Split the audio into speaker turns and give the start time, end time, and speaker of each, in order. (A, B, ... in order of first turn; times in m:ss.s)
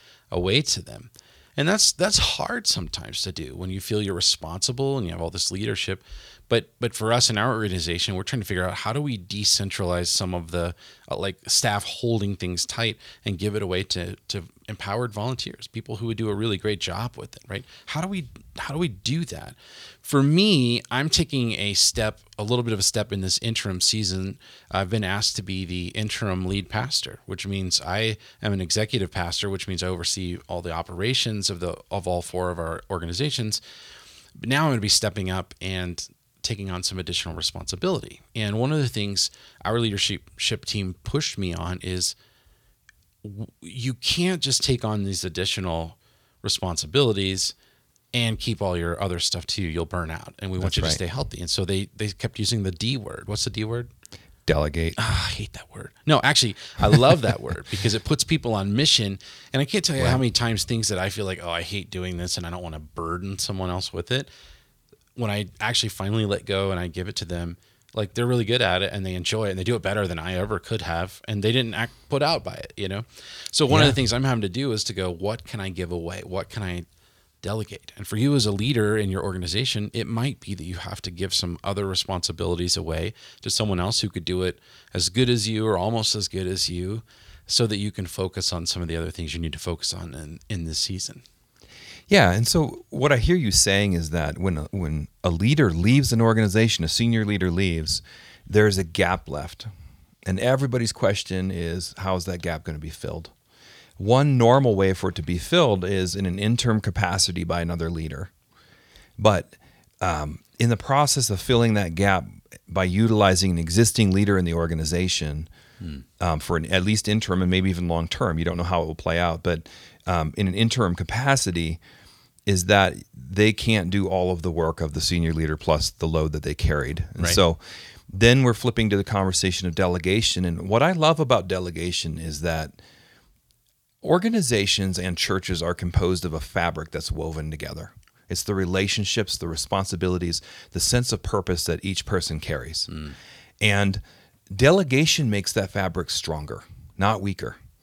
0:00.3-0:33.6 A
0:34.4-0:42.2 A
0:43.2-0:47.5 A
0:48.1-0:53.9 A
0:50.6-0:51.0 B
0:54.5-0:55.0 B
0:55.0-1:04.3 A
1:05.2-1:16.9 A
1:13.7-1:14.0 B
1:17.4-1:31.2 A
1:32.1-1:39.7 B
1:40.2-1:43.3 B
1:44.0-1:48.3 B
1:49.2-1:55.5 B
1:56.2-2:01.8 B
2:02.5-2:12.8 B
2:14.0-2:22.9 B
2:22.9-2:23.2 A
2:23.6-2:27.6 B